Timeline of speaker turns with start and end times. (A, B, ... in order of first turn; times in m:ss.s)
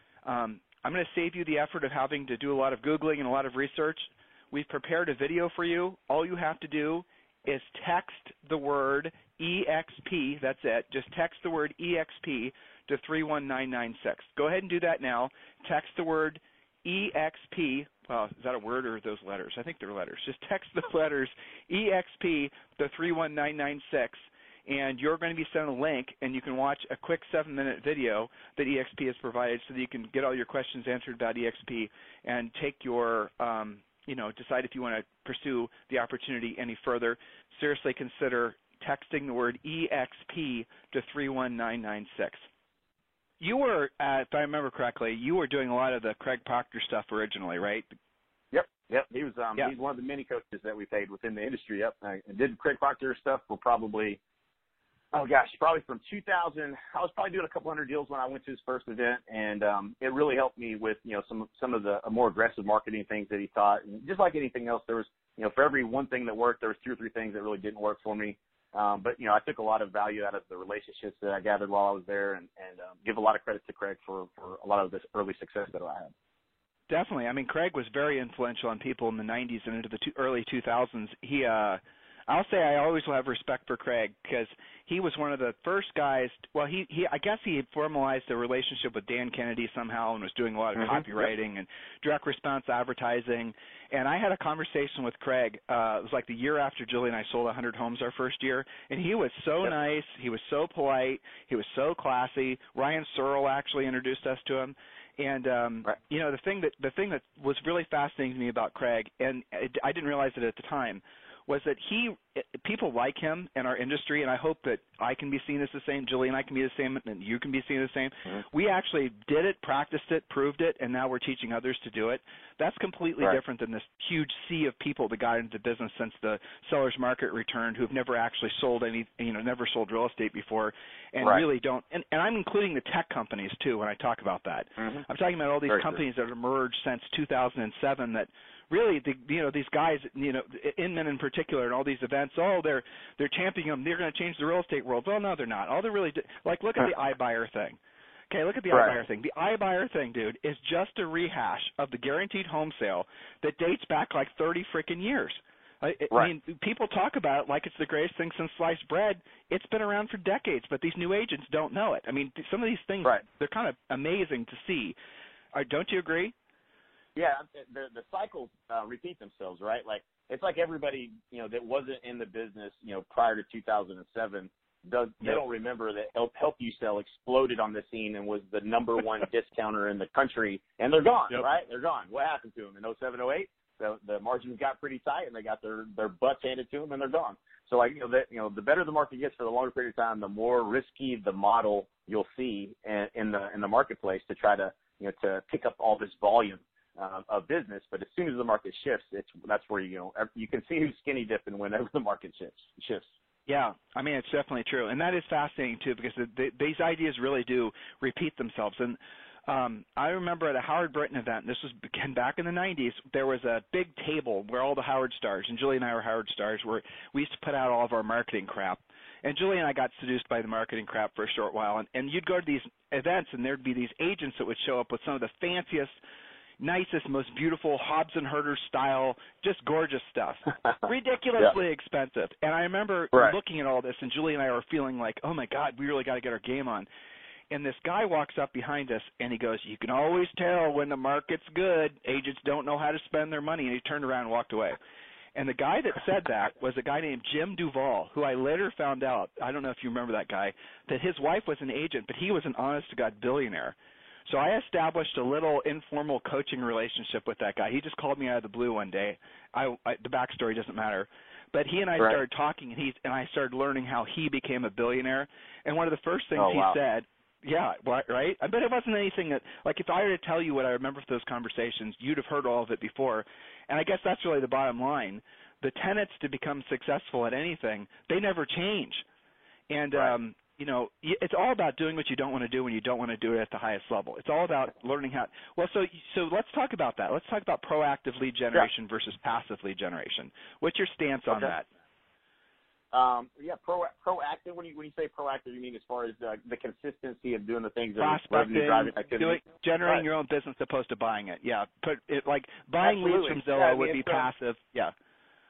0:00.2-0:42.5 A
0:43.4-0:48.0 A
0:48.5-0:54.2 B
0:55.1-1:16.1 B
1:16.9-2:27.8 A
1:30.8-1:31.3 B
2:14.8-2:15.1 B
2:15.7-2:16.0 B
2:28.3-2:45.0 A
2:28.7-2:29.0 B
2:45.5-2:46.3 A
2:47.2-3:23.1 B
3:23.5-3:46.0 A
3:46.6-3:56.9 A
3:57.5-4:04.8 A
4:05.4-4:13.8 A
4:14.3-4:39.0 A
4:26.4-4:26.8 B
4:39.7-4:51.7 A
4:52.9-5:00.0 B
4:58.0-5:04.9 A
5:02.8-5:04.3 B